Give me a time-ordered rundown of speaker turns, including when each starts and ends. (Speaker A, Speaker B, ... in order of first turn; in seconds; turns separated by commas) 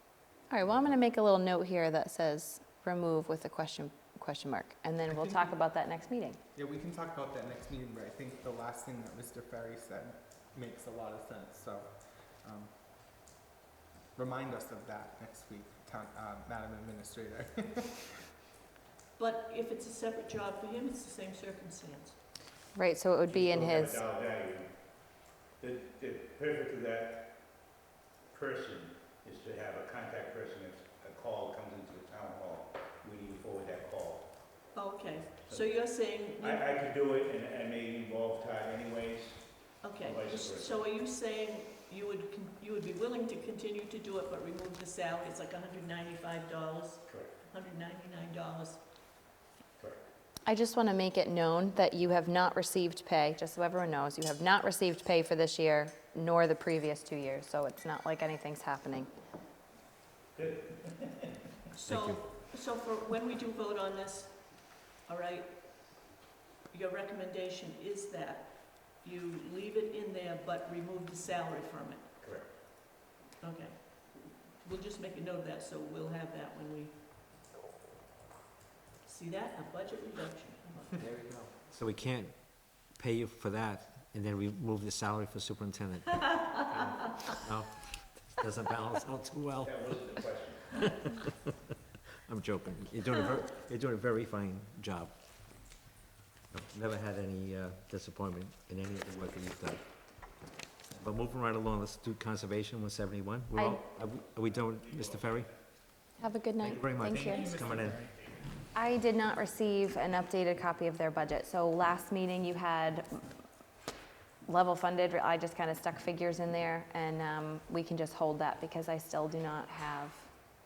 Speaker A: 0.5-6.4, Speaker B: 0.7-0.9, Speaker C: 5.1-5.6, Speaker C: 6.5-12.7, Speaker C: 14.2-18.3, Speaker D: 19.2-22.2, Speaker A: 22.8-24.0, Speaker B: 23.3-24.7, Speaker B: 25.6-27.3, Speaker B: 28.3-34.3, Speaker D: 34.7-36.6, Speaker B: 36.4-40.8, Speaker D: 39.8-48.8, Speaker B: 47.1-47.3, Speaker A: 50.5-59.1, Speaker B: 60.4-61.4, Speaker D: 61.7-65.6, Speaker E: 61.9-62.2, Speaker D: 66.7-72.1, Speaker B: 72.2-72.5, Speaker D: 73.4-77.0, Speaker D: 79.0-81.0, Speaker E: 81.0-91.3, Speaker B: 89.6-90.8, Speaker E: 92.3-95.2, Speaker E: 96.5-100.3, Speaker E: 100.9-105.5, Speaker A: 103.5-103.8, Speaker B: 104.4-105.6, Speaker A: 106.2-107.6, Speaker E: 106.6-108.0, Speaker B: 106.7-109.0, Speaker C: 107.1-108.2, Speaker A: 108.7-113.2, Speaker A: 114.5-120.5